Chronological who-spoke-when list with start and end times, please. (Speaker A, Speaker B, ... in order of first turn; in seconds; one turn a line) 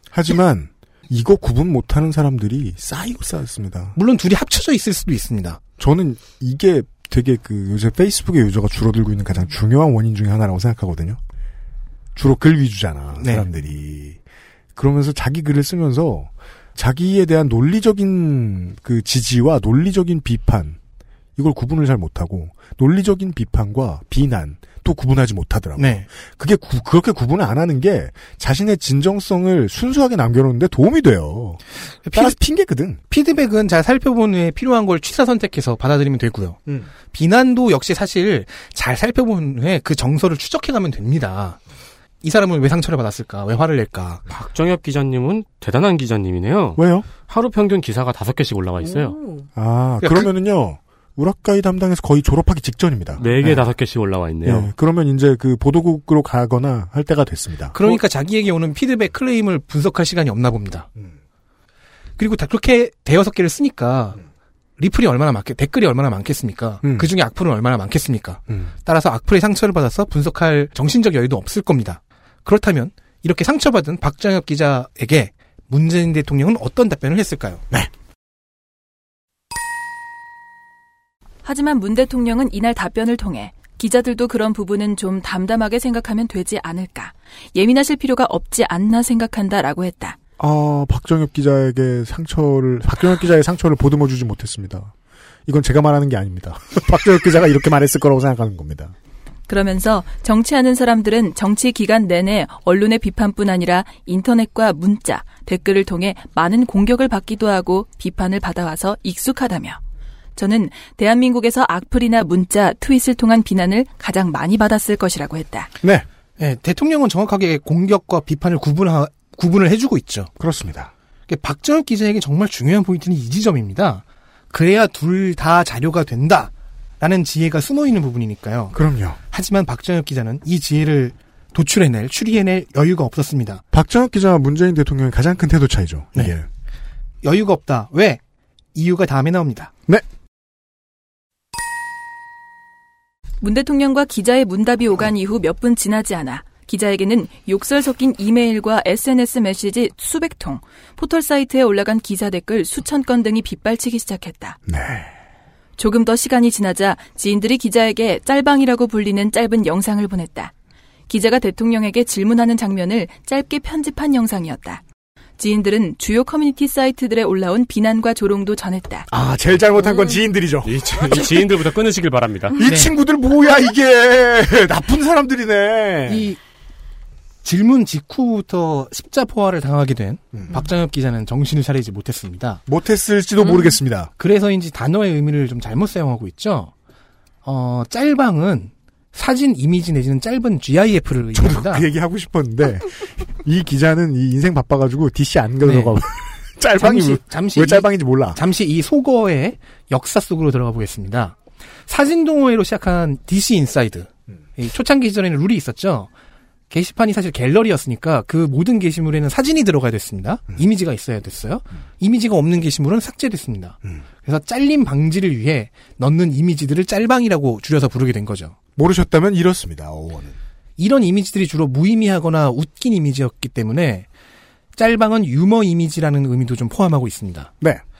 Speaker A: 0.1-4.0
Speaker B: 4.0-5.6
Speaker A: 5.8-11.2
Speaker A: 12.1-14.2
Speaker A: 14.8-20.8
Speaker A: 21.4-31.6
Speaker B: 25.8-26.1
Speaker B: 32.0-32.4
Speaker A: 32.1-33.0
Speaker B: 33.1-36.6
Speaker B: 37.1-41.6
Speaker B: 42.2-44.2
Speaker C: 44.3-49.2
Speaker A: 46.8-47.1
Speaker A: 49.5-53.6
Speaker B: 50.0-50.3
Speaker C: 53.2-54.7
Speaker A: 54.4-58.0
Speaker B: 57.7-60.9
Speaker B: 62.2-64.2
Speaker B: 64.8-77.6
Speaker A: 66.8-67.1
Speaker D: 81.4-90.2
Speaker A: 90.4-94.9
Speaker A: 95.5-98.9
Speaker D: 99.5-109.8
Speaker D: 110.3-115.7
Speaker B: 116.4-120.3
Speaker A: 120.4-120.9
Speaker B: 121.3-128.8
Speaker A: 128.7-129.2
Speaker B: 129.3-133.6
Speaker A: 133.7-136.5
Speaker B: 137.2-138.2
Speaker B: 138.7-139.7
Speaker D: 143.4-154.6
Speaker A: 154.7-155.1
Speaker D: 155.8-160.5
Speaker D: 161.1-164.8
Speaker D: 165.4-169.1
Speaker A: 169.1-171.0
Speaker C: 170.6-172.6
Speaker A: 172.6-176.3
Speaker B: 172.6-172.9
Speaker B: 176.1-176.4
Speaker B: 177.4-182.6
Speaker A: 182.7-184.1
Speaker B: 184.2-186.7
Speaker B: 187.4-191.8
Speaker A: 191.3-198.4
Speaker B: 195.6-195.9
Speaker B: 196.8-201.4
Speaker B: 201.9-206.1
Speaker B: 206.7-218.5
Speaker A: 218.8-220.3
Speaker B: 220.8-224.1
Speaker B: 224.7-227.5